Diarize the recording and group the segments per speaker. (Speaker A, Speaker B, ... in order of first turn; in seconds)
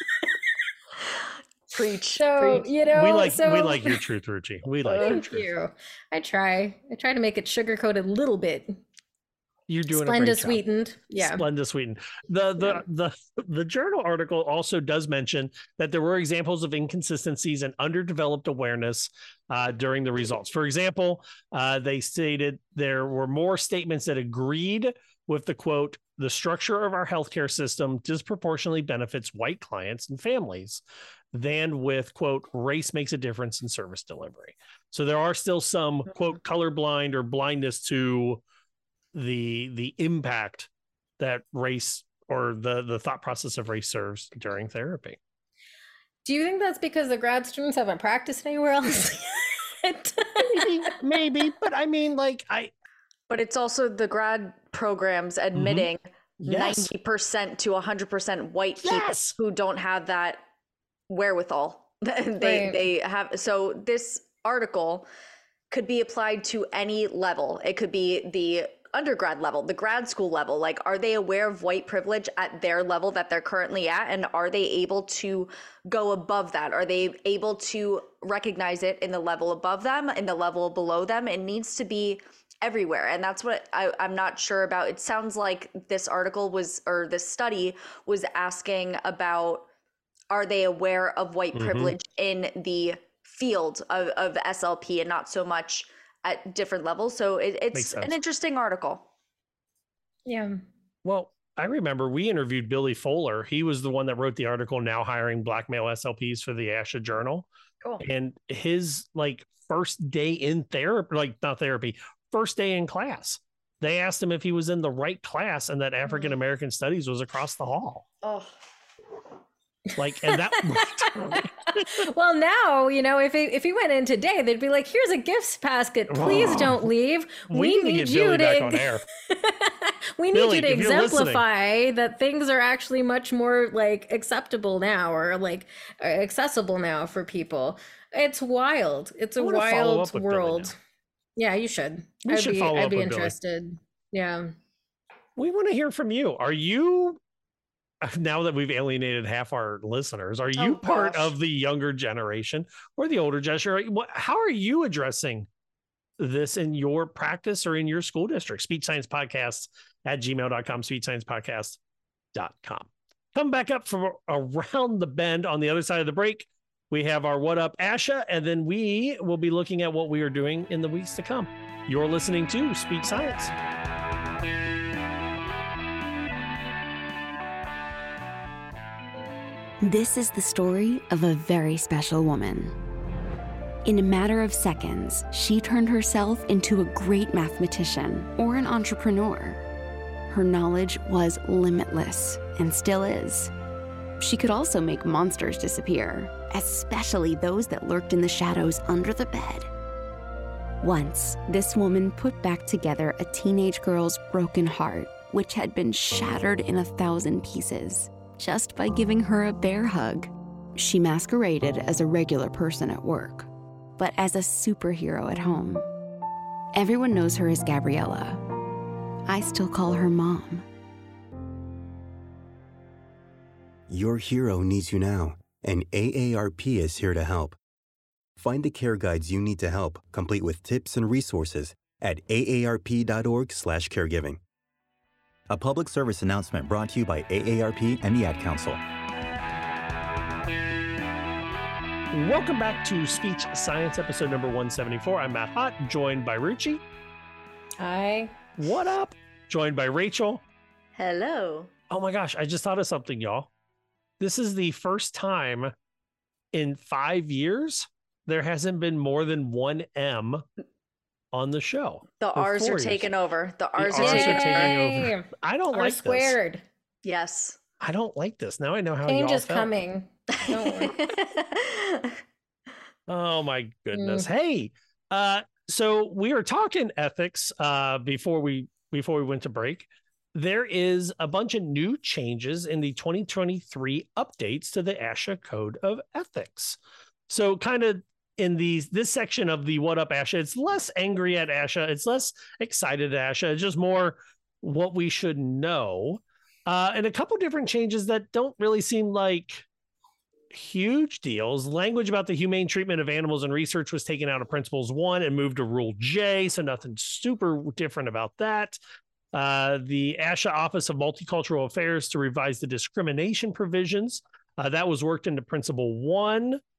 Speaker A: 1.7-2.7, 4.9-5.2, 53.3-60.4, 61.1-65.1, 65.7-89.7, 90.3-99.1, 118.2-118.5, 150.6-151.3, 250.9-251.7, 262.2-264.7, 267.0-267.6, 270.3-272.2
Speaker B: 2.1-4.0, 5.0-8.8, 9.9-11.4, 46.2-50.7, 62.4-62.8, 100.2-100.6, 120.2-140.8, 141.4-144.5, 247.8-248.3, 264.0-266.6, 269.1-270.9, 273.9-274.3
Speaker C: 2.9-5.5, 9.7-10.6, 11.1-38.4, 39.1-45.2, 50.4-52.7, 55.5-55.9, 56.4-56.9, 58.8-59.3, 91.5-92.0, 97.7-98.1, 101.0-107.5, 108.0-118.0, 120.0-121.8, 126.1-126.9, 127.5-129.0, 130.3-131.4, 139.4-140.7, 142.2-143.3, 145.3-147.2, 148.0-155.5, 156.2-161.8, 162.3-173.5, 242.1-246.8, 248.6-250.4, 251.9-253.5, 254.2-255.7, 256.5-260.4, 261.3-263.1, 263.8-266.4, 267.8-269.7, 273.1-299.6, 300.5-308.8, 309.3-316.6
Speaker D: 179.8-182.7, 183.8-189.6, 190.3-193.5, 194.2-199.7, 200.8-215.8, 216.7-218.4, 219.3-220.6
Speaker E: 223.9-227.6, 228.4-234.4, 235.5-238.8